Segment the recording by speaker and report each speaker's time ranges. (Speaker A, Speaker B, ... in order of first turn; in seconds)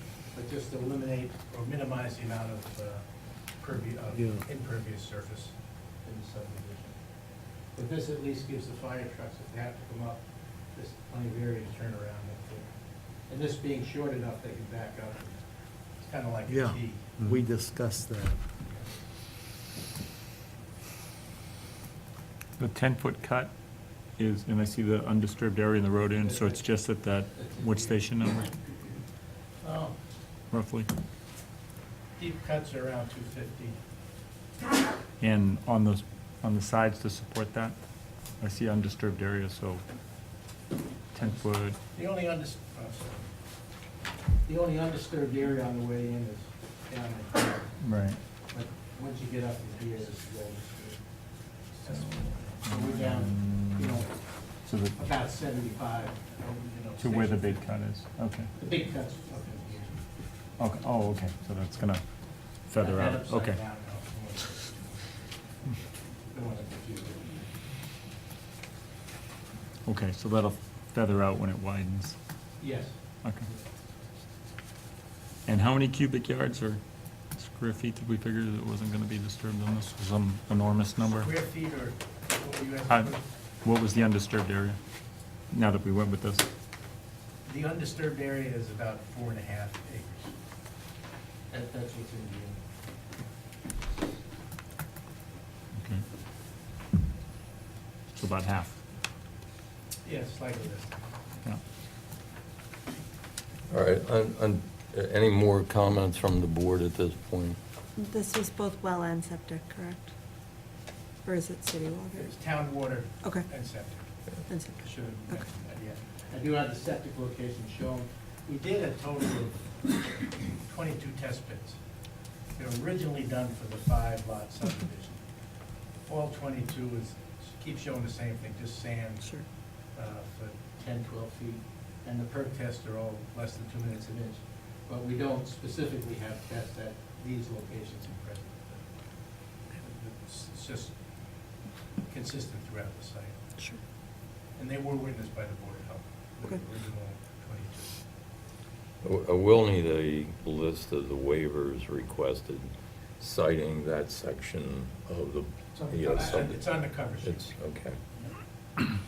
Speaker A: 0.3-7.0, 7.7-17.3, 18.6-18.9, 26.2-26.8, 27.3-29.0, 29.6-29.9, 32.2-33.8, 41.9-43.3, 44.4-47.8, 48.5-51.0, 51.6-54.1, 54.9-57.6, 58.6-60.0, 62.7-65.1, 66.3-67.4, 72.6-73.6, 81.1-83.2, 87.4-90.3, 91.5-92.6, 100.0-101.0, 112.2-114.2, 114.8-119.7, 120.5-121.8, 122.5-125.2, 126.0-129.3, 129.9-138.8, 139.8-140.9, 142.1-143.4, 144.6-147.9, 155.7-157.6
Speaker B: 4.1-4.4, 16.5-18.4
Speaker C: 22.6-23.5, 24.2-28.5, 30.5-30.9, 35.2-37.7, 38.4-39.8, 41.1-41.8, 47.8-48.2, 51.9-54.0, 54.6-55.0, 57.0-58.5, 60.6-62.0, 62.6-63.6, 69.8-72.2, 75.5-76.8, 77.3-81.3, 83.6-84.8, 85.5-86.5, 95.8-96.0, 98.2-98.8
Speaker D: 103.7-107.6, 149.0-158.0
Speaker E: 108.0-110.1, 111.2-112.4, 114.5-115.5